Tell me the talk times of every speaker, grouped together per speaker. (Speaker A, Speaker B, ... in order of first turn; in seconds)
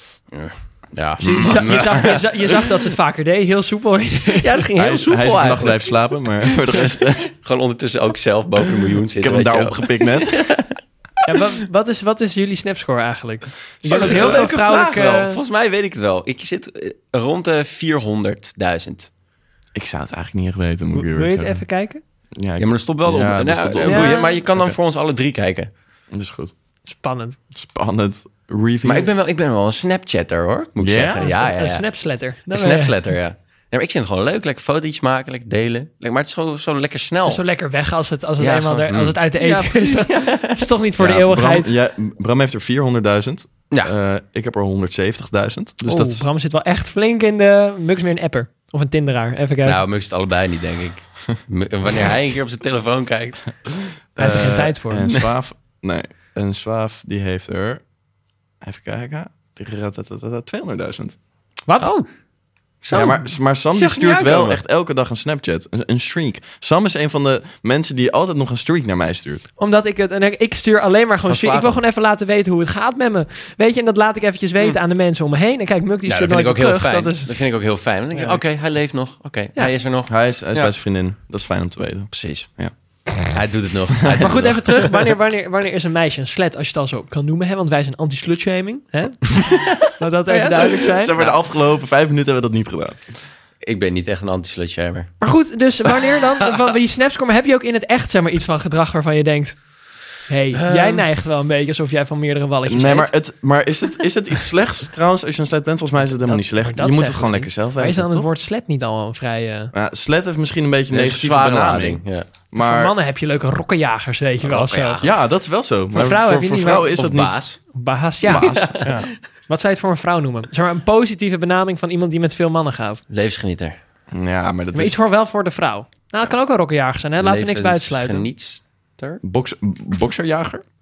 Speaker A: 0.3-2.8, 4.4-5.9, 6.7-10.8, 13.9-19.1, 22.6-25.7, 28.8-31.9, 32.5-37.4, 38.4-40.7, 49.6-53.4, 61.8-62.1, 62.8-64.6, 71.3-71.8, 76.1-80.7, 82.1-82.5, 83.2-85.1, 90.3-91.4, 93.6-95.1, 100.5-101.1, 110.9-112.3, 114.4-115.1, 116.9-117.6, 118.3-119.0, 123.1-123.8, 127.2-129.2
Speaker B: 1.2-2.2, 4.8-7.3, 9.2-10.4, 13.9-14.4, 19.8-21.6, 22.4-24.8, 26.1-26.5, 27.5-29.1, 30.8-31.3, 41.0-46.3, 54.2-57.8, 58.6-61.2, 62.9-69.5, 80.1-82.7, 90.8-93.0, 102.7-108.3, 109.7-112.9, 115.0-117.4, 118.2-119.1, 124.1-125.0, 129.2-130.6
Speaker C: 1.3-4.6, 11.2-15.4, 20.9-22.0, 23.9-24.4, 26.9-27.4, 31.2-33.0, 37.2-41.7, 45.9-49.8, 54.2-55.2, 61.7-61.9, 69.6-77.4, 84.2-91.1, 95.2-99.6, 100.2-103.1, 106.2-109.7, 112.6-115.0, 115.9-117.0, 117.7-118.9, 119.5-123.0, 124.7-128.2